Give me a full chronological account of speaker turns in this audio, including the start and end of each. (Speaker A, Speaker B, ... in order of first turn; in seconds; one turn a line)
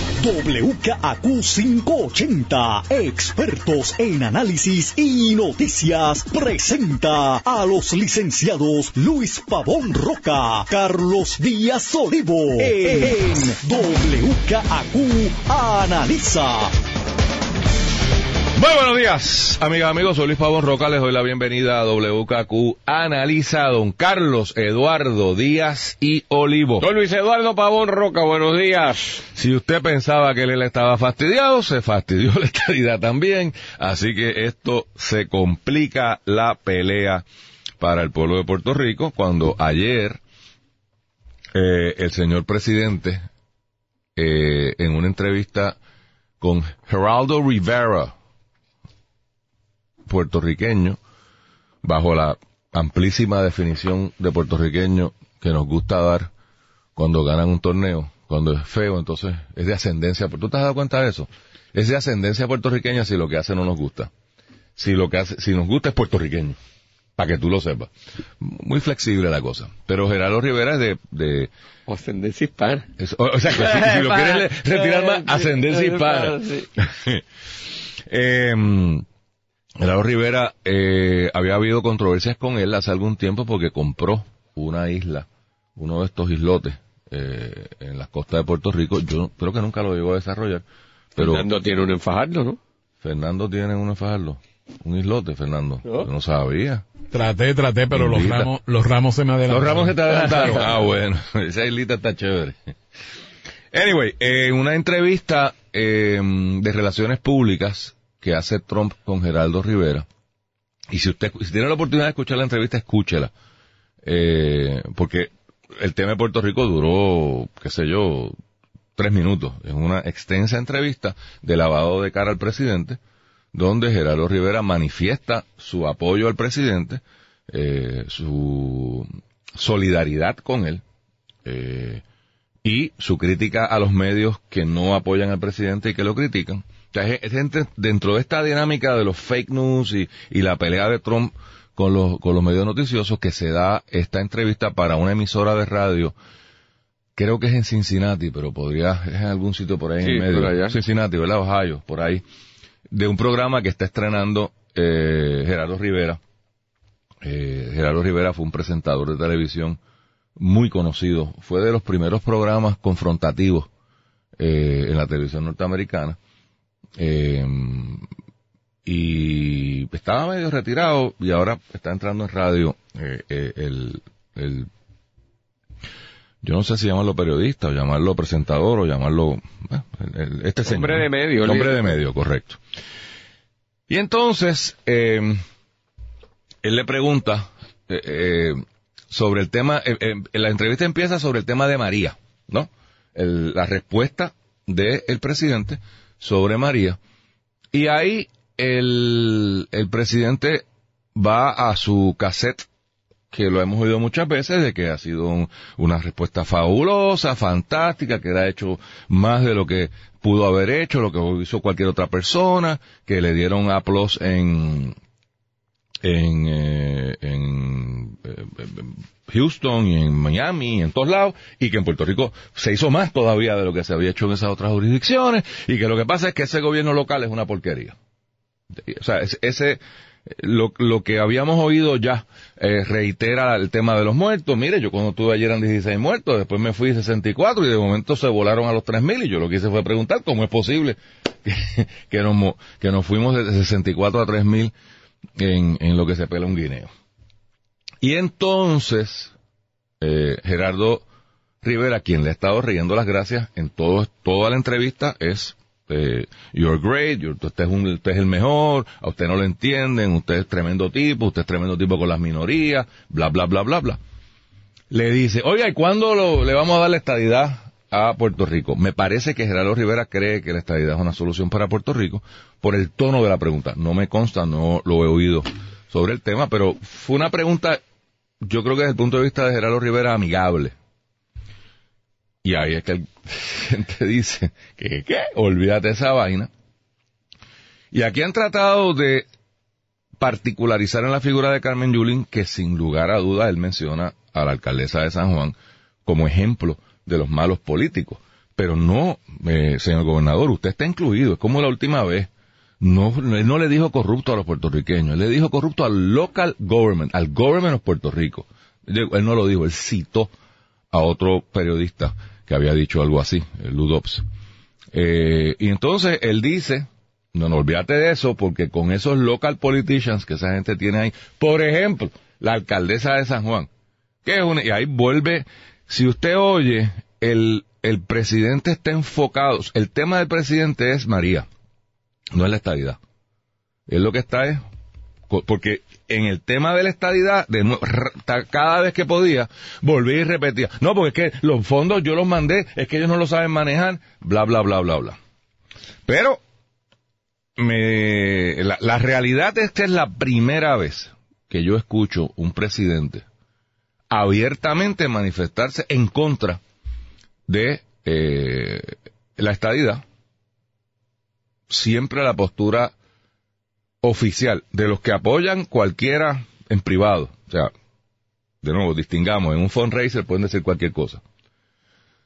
Speaker A: 0.2-16.7
Speaker B: 18.6-26.9
Speaker C: 26.8-29.2
Speaker B: 29.3-37.2
Speaker B: 37.8-40.2
Speaker B: 41.5-43.2
Speaker B: 44.1-45.8
Speaker B: 46.4-48.1
Speaker B: 50.1-51.0
Speaker B: 51.8-56.3
Speaker B: 57.0-64.1
Speaker B: 64.8-66.6
Speaker B: 67.2-71.5
Speaker C: 71.9-72.9
Speaker B: 73.0-77.2
Speaker C: 73.5-76.6
Speaker B: 78.1-79.0
Speaker B: 79.8-85.2
Speaker B: 85.8-90.6
Speaker B: 91.2-91.5
Speaker C: 91.2-92.6
Speaker B: 93.0-96.8
Speaker D: 97.1-100.0
Speaker B: 97.9-98.5
Speaker B: 99.5-102.5
Speaker B: 103.7-110.0
Speaker B: 110.9-113.3
Speaker B: 114.0-118.3
Speaker B: 119.0-123.0
Speaker B: 123.5-130.8
Speaker B: 131.4-132.0
Speaker B: 132.6-146.1
Speaker B: 147.2-152.2
Speaker C: 150.0-150.7
Speaker B: 152.9-156.2
Speaker B: 157.2-159.8
Speaker B: 160.4-163.7
Speaker B: 164.4-166.2
Speaker B: 167.0-168.1
Speaker B: 168.8-174.7
Speaker B: 176.4-182.6
Speaker C: 180.7-181.8
Speaker B: 183.9-185.4
Speaker B: 186.6-188.6
Speaker B: 189.1-197.0
Speaker B: 197.7-200.6
Speaker B: 201.2-202.7
Speaker B: 203.3-214.9
Speaker B: 216.0-227.9
Speaker B: 228.8-244.7
Speaker B: 245.4-246.9
Speaker B: 248.0-249.3
Speaker B: 250.0-251.0
Speaker B: 251.6-264.0
Speaker B: 264.9-277.8
Speaker B: 278.4-280.7
Speaker B: 282.4-286.5
Speaker B: 287.9-289.2
Speaker B: 290.2-302.3
Speaker B: 302.8-310.3
Speaker B: 310.9-314.2
Speaker B: 314.9-323.7
Speaker B: 324.2-331.5
Speaker B: 332.3-333.0
Speaker B: 333.9-334.6
Speaker B: 335.3-345.2
Speaker B: 346.1-346.4
Speaker B: 347.6-353.2
Speaker B: 354.1-356.6
Speaker B: 357.5-360.0
Speaker B: 361.7-362.9
Speaker B: 364.0-367.7
Speaker B: 368.6-371.2